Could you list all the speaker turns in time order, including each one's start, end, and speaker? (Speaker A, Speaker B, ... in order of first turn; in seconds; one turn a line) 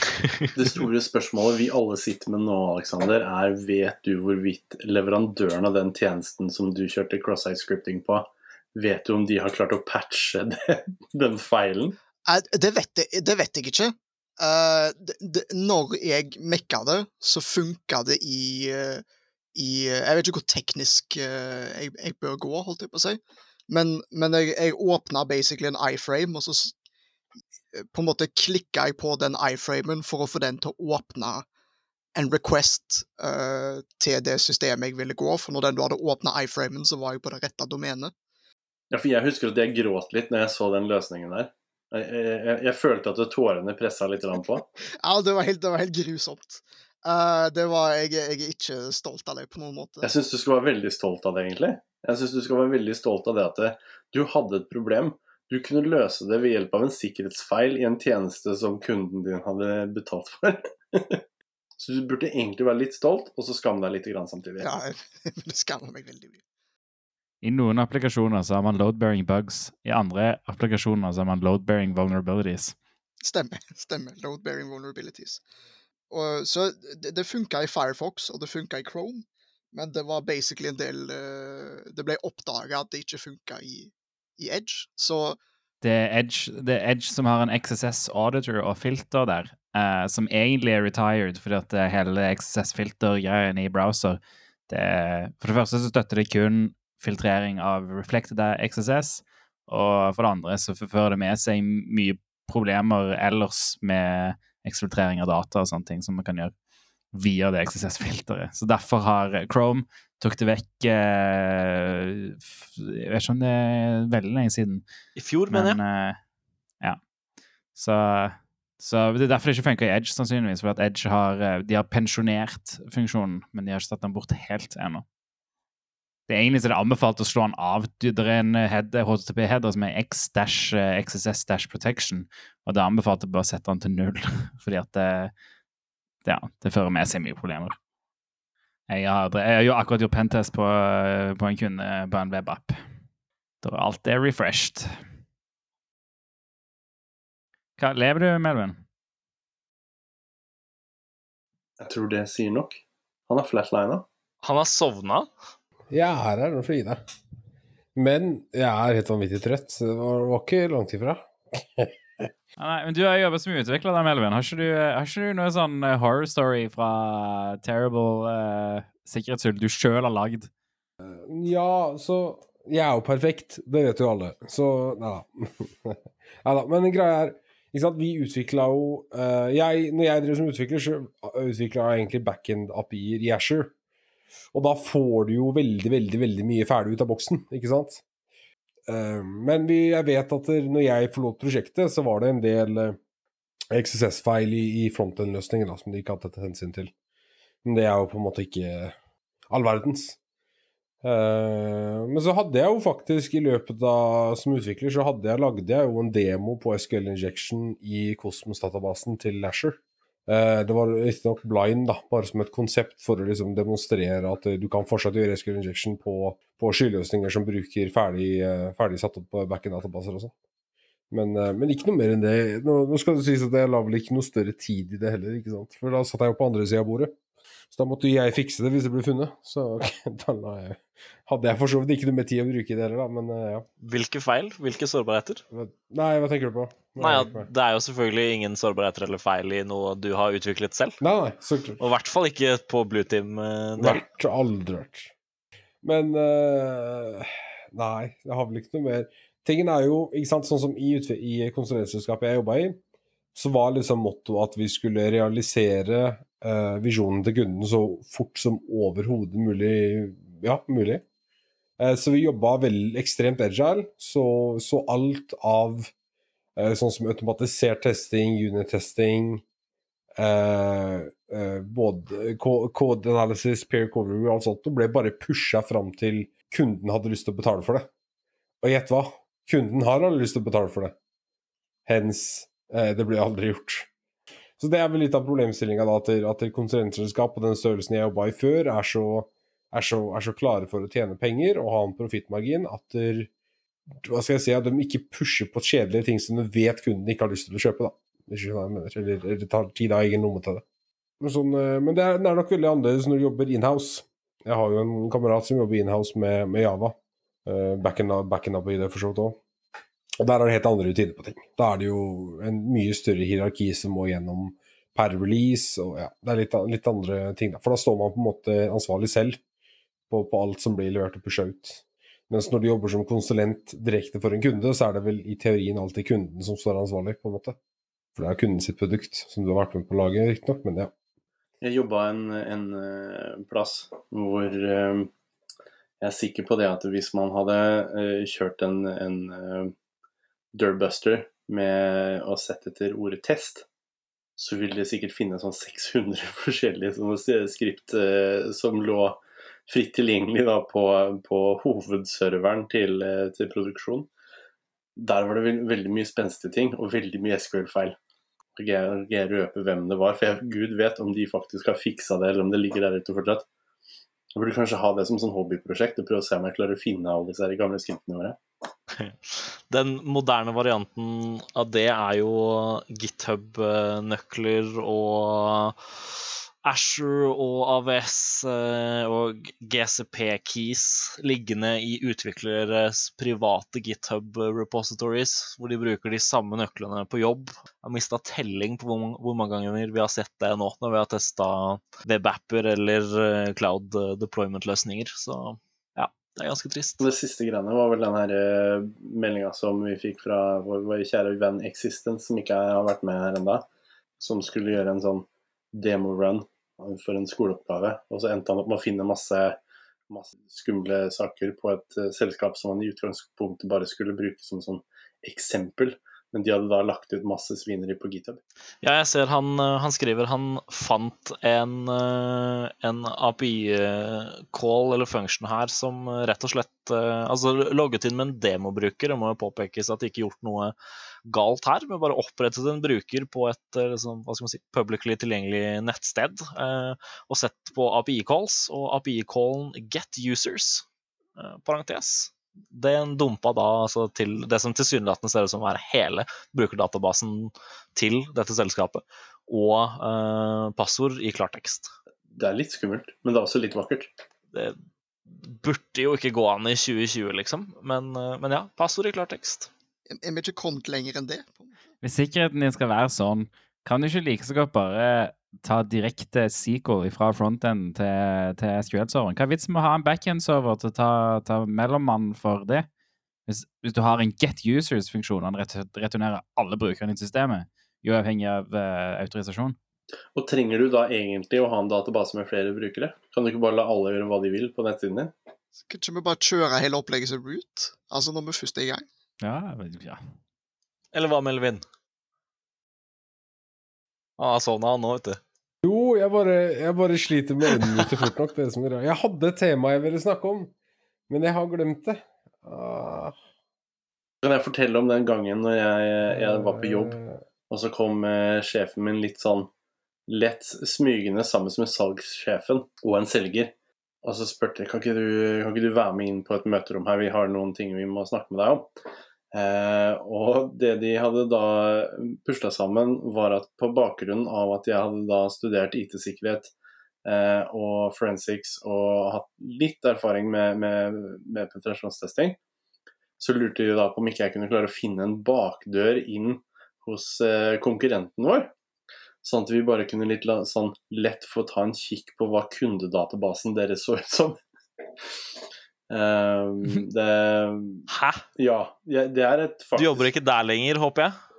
Speaker A: 0.5-12.0
Speaker B: 12.3-19.0
Speaker B: 19.5-26.7
Speaker B: 27.7-31.4
Speaker B: 32.1-38.1
Speaker A: 38.9-44.6
Speaker B: 45.0-50.1
Speaker A: 50.0-61.2
Speaker A: 61.8-64.7
Speaker B: 64.6-66.4
Speaker C: 67.4-72.8
Speaker B: 73.2-75.4
Speaker B: 76.1-85.4
Speaker C: 85.8-106.5
Speaker C: 107.1-114.8
Speaker D: 115.2-115.8
Speaker C: 115.5-116.2
Speaker C: 117.7-125.0
Speaker C: 126.3-135.3
Speaker C: 136.2-137.8
Speaker C: 138.9-142.8
Speaker C: 143.6-144.9
Speaker C: 147.8-148.8
Speaker A: 151.8-154.1
Speaker D: 154.4-155.3
Speaker E: 155.9-157.0
Speaker E: 157.9-162.3
Speaker C: 162.6-170.5
Speaker E: 171.0-183.7
Speaker E: 184.5-188.0
Speaker E: 188.9-193.0
Speaker E: 193.7-196.9
Speaker E: 197.6-198.9
Speaker E: 199.5-200.2
Speaker E: 201.0-220.3
Speaker E: 221.1-227.1
Speaker E: 227.7-233.7
Speaker D: 233.8-235.4
Speaker E: 235.5-237.5
Speaker D: 237.0-241.0
Speaker E: 241.0-241.8
Speaker D: 241.8-244.0
Speaker E: 243.8-245.1
Speaker E: 245.8-252.8
Speaker E: 253.3-261.0
Speaker E: 261.8-265.9
Speaker E: 266.6-269.4
Speaker E: 270.2-277.9
Speaker E: 278.6-280.9
Speaker E: 281.9-283.9
Speaker E: 284.6-293.3
Speaker E: 294.0-300.6
Speaker E: 301.2-306.9
Speaker E: 307.4-309.4
Speaker E: 310.2-319.4
Speaker E: 320.1-327.6
Speaker E: 328.1-330.9
Speaker A: 331.6-335.1
Speaker A: 336.0-339.7
Speaker A: 340.5-343.6
Speaker A: 344.4-354.1
Speaker A: 354.9-357.9
Speaker A: 358.6-363.4
Speaker A: 364.3-368.4
Speaker D: 369.0-397.1
Speaker A: 397.0-403.6
Speaker A: 404.2-409.6
Speaker A: 410.1-418.4
Speaker D: 418.8-430.7
Speaker D: 431.3-440.8
Speaker D: 441.4-451.9
Speaker A: 452.4-454.1
Speaker D: 454.5-459.7
Speaker B: 460.1-461.8
Speaker C: 462.0-472.9
Speaker C: 473.5-479.7
Speaker A: 480.3-485.3
Speaker B: 485.8-489.0
Speaker C: 489.4-490.2
Speaker D: 491.1-491.8
Speaker D: 494.4-495.4
Speaker E: 495.8-500.7
Speaker E: 501.3-503.4
Speaker A: 504.4-507.2
Speaker E: 506.3-507.4
Speaker A: 507.7-509.7
Speaker A: 510.3-518.9
Speaker A: 519.5-526.7
Speaker A: 527.2-532.6
Speaker A: 533.4-538.7
Speaker A: 539.4-544.6
Speaker A: 546.1-550.3
Speaker D: 548.1-548.4
Speaker D: 550.0-551.3